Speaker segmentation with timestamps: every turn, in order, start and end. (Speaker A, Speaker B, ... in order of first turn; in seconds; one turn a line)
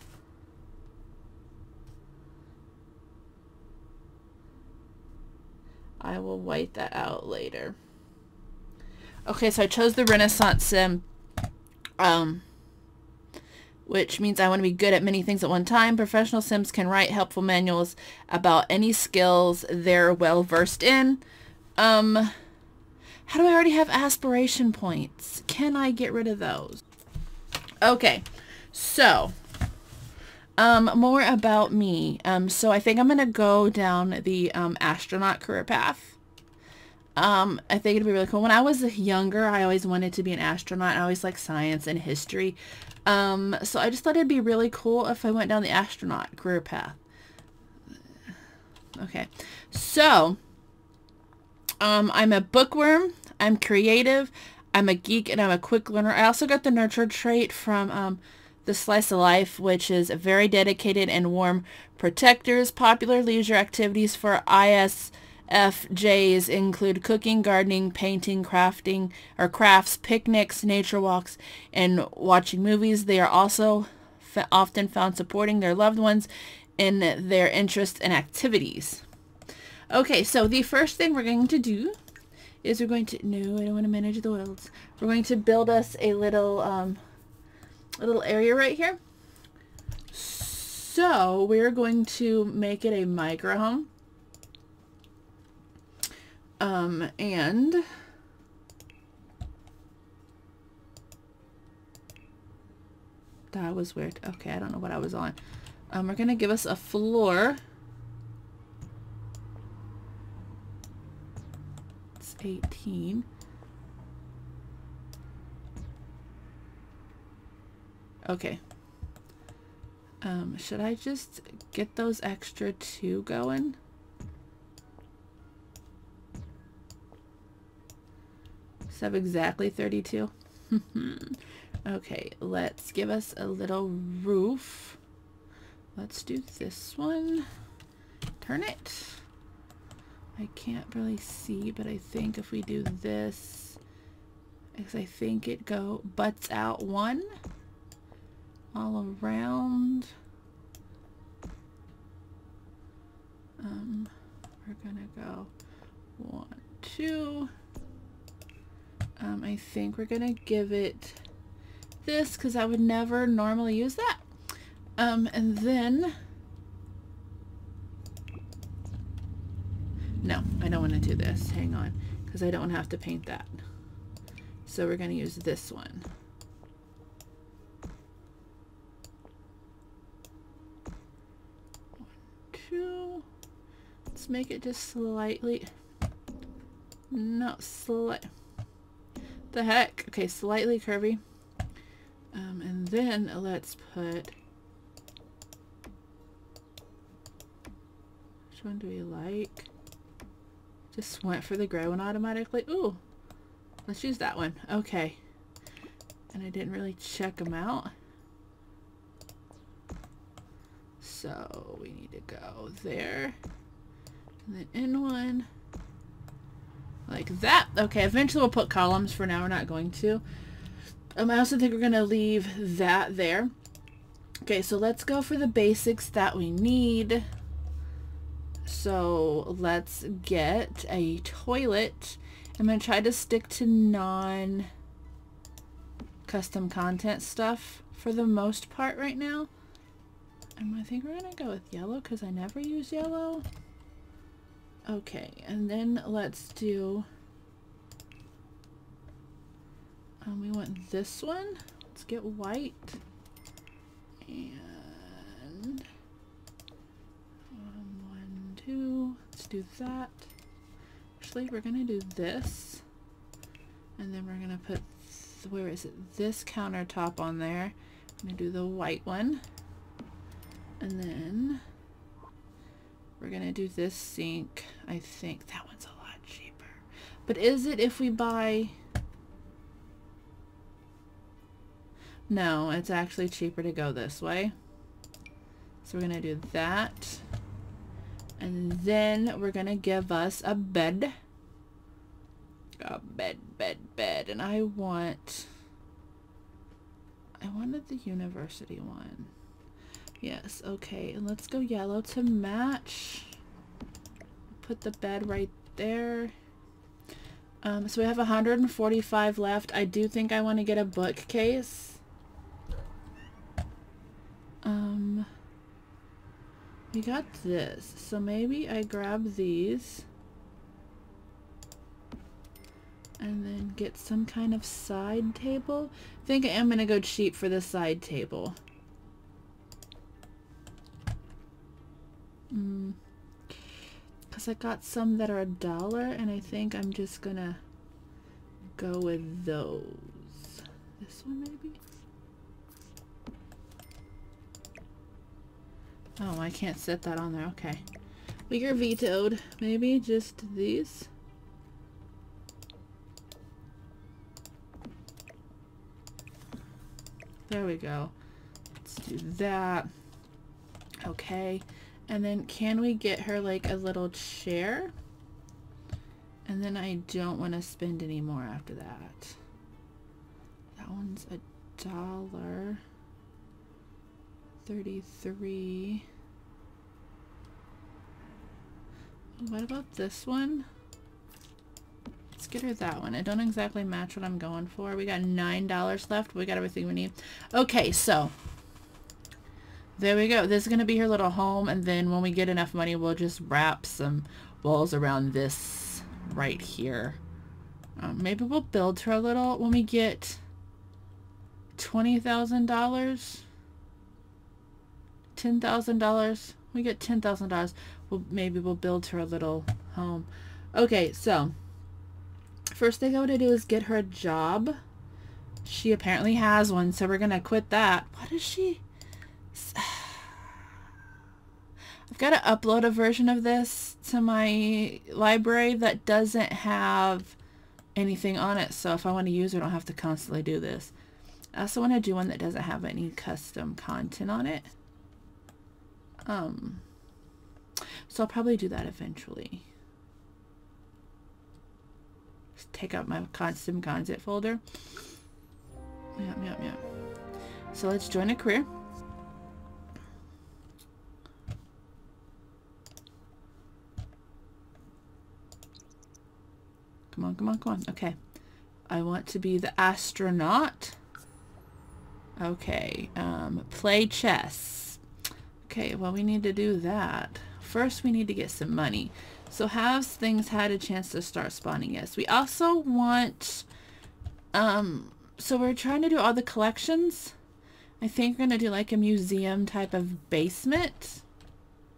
Speaker A: 6.0-7.8
Speaker A: 9.2-11.0
Speaker A: 12.0-12.4
Speaker A: 13.8-21.2
Speaker A: 21.8-22.3
Speaker A: 23.3-26.8
Speaker A: 27.8-29.3
Speaker A: 30.6-36.2
Speaker A: 37.2-47.0
Speaker A: 49.0-50.4
Speaker A: 51.8-79.0
Speaker A: 79.9-82.0
Speaker A: 82.6-87.0
Speaker A: 88.0-89.0
Speaker A: 90.1-93.9
Speaker A: 96.6-97.8
Speaker A: 103.5-105.4
Speaker A: 105.9-107.6
Speaker A: 112.2-113.3
Speaker A: 118.2-118.6
Speaker A: 120.2-123.8
Speaker A: 128.9-135.0
Speaker A: 135.9-137.5
Speaker A: 138.4-139.2
Speaker A: 140.3-143.8
Speaker A: 144.7-147.3
Speaker A: 148.7-150.1
Speaker A: 153.6-154.1
Speaker A: 154.6-155.5
Speaker A: 156.2-157.5
Speaker A: 159.2-161.2
Speaker A: 162.0-164.2
Speaker A: 165.0-166.2
Speaker A: 170.2-173.6
Speaker A: 174.7-176.1
Speaker A: 182.0-183.2
Speaker A: 184.1-185.7
Speaker A: 187.1-188.3
Speaker A: 189.5-191.2
Speaker A: 192.3-194.3
Speaker A: 198.5-199.7
Speaker A: 200.9-203.0
Speaker A: 203.9-205.2
Speaker A: 206.3-207.9
Speaker A: 211.0-213.4
Speaker A: 214.4-215.5
Speaker A: 217.1-220.2
Speaker A: 221.2-223.5
Speaker A: 224.4-227.2
Speaker A: 228.6-234.7
Speaker A: 236.3-239.5
Speaker A: 240.6-243.4
Speaker A: 244.8-247.1
Speaker A: 250.2-253.0
Speaker A: 254.2-255.8
Speaker A: 257.5-260.3
Speaker A: 261.2-262.8
Speaker A: 264.0-269.4
Speaker A: 270.8-271.6
Speaker A: 273.2-278.7
Speaker A: 282.3-284.5
Speaker A: 285.8-287.2
Speaker A: 288.4-291.1
Speaker A: 292.8-295.5
Speaker A: 297.4-299.3
Speaker A: 300.2-303.3
Speaker A: 304.6-306.3
Speaker A: 307.6-312.0
Speaker A: 314.6-315.3
Speaker A: 316.9-320.1
Speaker A: 323.2-328.6
Speaker A: 332.5-333.0
Speaker A: 334.3-337.6
Speaker A: 338.8-341.8
Speaker A: 346.2-347.8
Speaker A: 348.5-351.1
Speaker A: 357.5-358.1
Speaker A: 358.8-359.9
Speaker A: 361.0-364.9
Speaker A: 366.4-369.4
Speaker A: 370.8-372.8
Speaker A: 374.6-376.1
Speaker A: 379.4-380.7
Speaker A: 382.4-388.3
Speaker A: 390.0-397.2
Speaker A: 398.0-400.4
Speaker A: 401.8-403.4
Speaker A: 405.3-411.5
Speaker A: 412.7-414.8
Speaker A: 415.6-418.8
Speaker A: 419.5-420.6
Speaker A: 422.1-427.4
Speaker A: 427.9-430.9
Speaker A: 431.5-434.7
Speaker A: 436.2-436.8
Speaker A: 438.1-439.6
Speaker A: 442.6-444.6
Speaker A: 446.2-446.8
Speaker A: 447.7-448.7
Speaker A: 457.1-458.1
Speaker A: 458.9-461.0
Speaker A: 462.4-465.0
Speaker A: 465.6-473.6
Speaker A: 474.5-477.3
Speaker A: 478.0-481.2